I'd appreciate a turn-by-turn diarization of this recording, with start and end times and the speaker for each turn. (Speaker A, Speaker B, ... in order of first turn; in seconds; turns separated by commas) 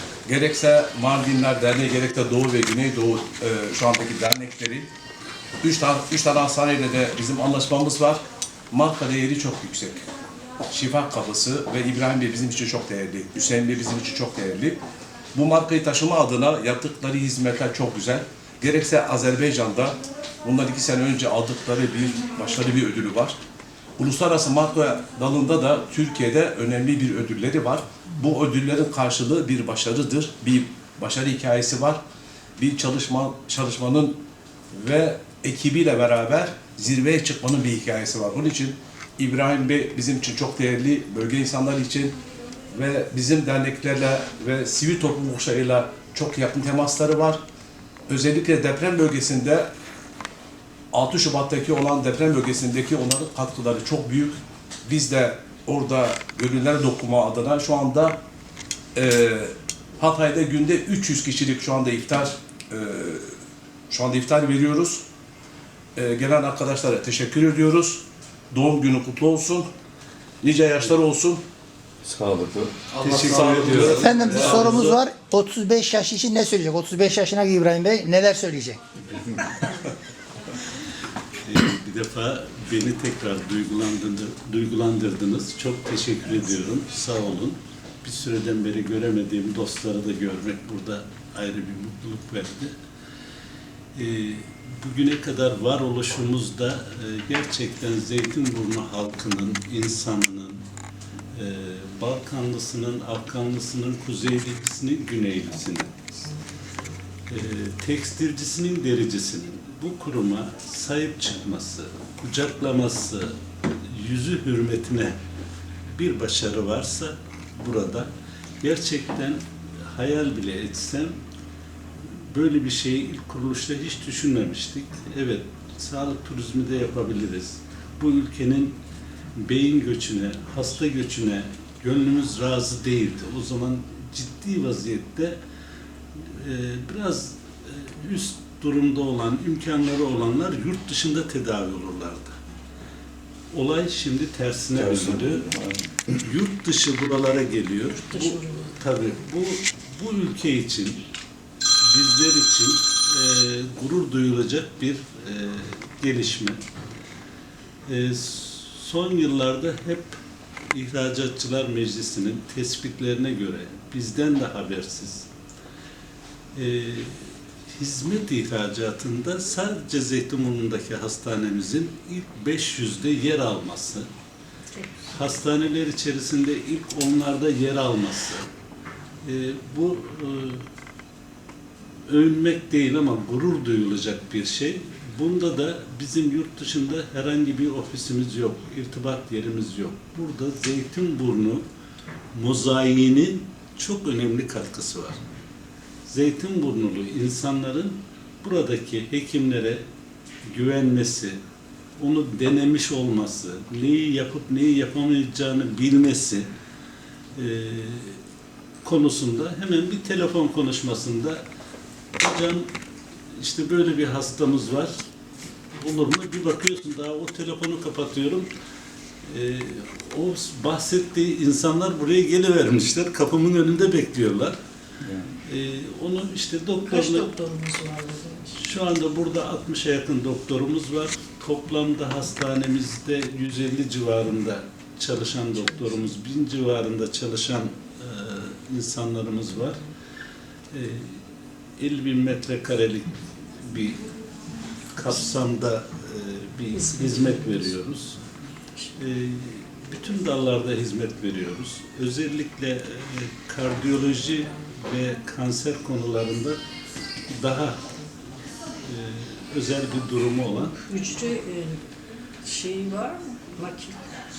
Speaker A: 0.3-4.9, Speaker A: 5.6-10.1, Speaker A: 10.7-14.8, Speaker A: 15.3-23.4, Speaker A: 24.0-32.0, Speaker A: 32.6-34.2, Speaker A: 34.7-42.2, Speaker A: 42.7-47.4, Speaker A: 48.1-49.7, Speaker A: 50.9-58.2, Speaker A: 59.0-63.3, Speaker A: 63.9-65.0, Speaker A: 66.0-69.7, Speaker A: 70.4-71.4, Speaker B: 72.0-74.6, Speaker A: 72.9-74.9, Speaker C: 73.2-74.8, Speaker D: 73.8-78.8, Speaker C: 81.5-92.7, Speaker C: 94.0-100.7, Speaker C: 101.3-105.9, Speaker C: 107.3-113.4, Speaker C: 113.9-115.2, Speaker C: 115.9-118.1, Speaker C: 118.6-121.2, Speaker C: 122.2-128.8, Speaker C: 129.3-135.4, Speaker C: 136.2-142.4, Speaker C: 143.5-145.4, Speaker B: 144.8-146.0, Speaker C: 146.2-151.0, Speaker E: 148.0-148.8, Speaker C: 151.8-156.6, Speaker C: 157.9-160.2, Speaker C: 160.7-165.3, Speaker C: 166.6-167.2, Speaker C: 167.8-174.1, Speaker E: 174.8-175.1, Speaker C: 175.1-178.5, Speaker C: 179.2-180.6, Speaker C: 182.1-191.6, Speaker C: 192.3-195.2, Speaker C: 196.1-199.8, Speaker C: 200.5-201.4, Speaker C: 202.0-206.5, Speaker C: 207.3-208.2, Speaker C: 208.8-211.4, Speaker C: 212.2-212.7, Speaker C: 213.4-214.9, Speaker C: 215.8-218.5, Speaker C: 219.2-224.6, Speaker B: 225.0-225.3, Speaker C: 225.5-227.3, Speaker E: 226.8-228.6, Speaker C: 228.6-239.8, Speaker C: 240.7-241.2, Speaker C: 241.8-244.0, Speaker C: 245.0-248.2, Speaker E: 246.7-247.8, Speaker C: 249.0-256.6, Speaker C: 257.3-257.8, Speaker C: 258.8-260.8, Speaker E: 260.8-261.8, Speaker E: 262.4-264.0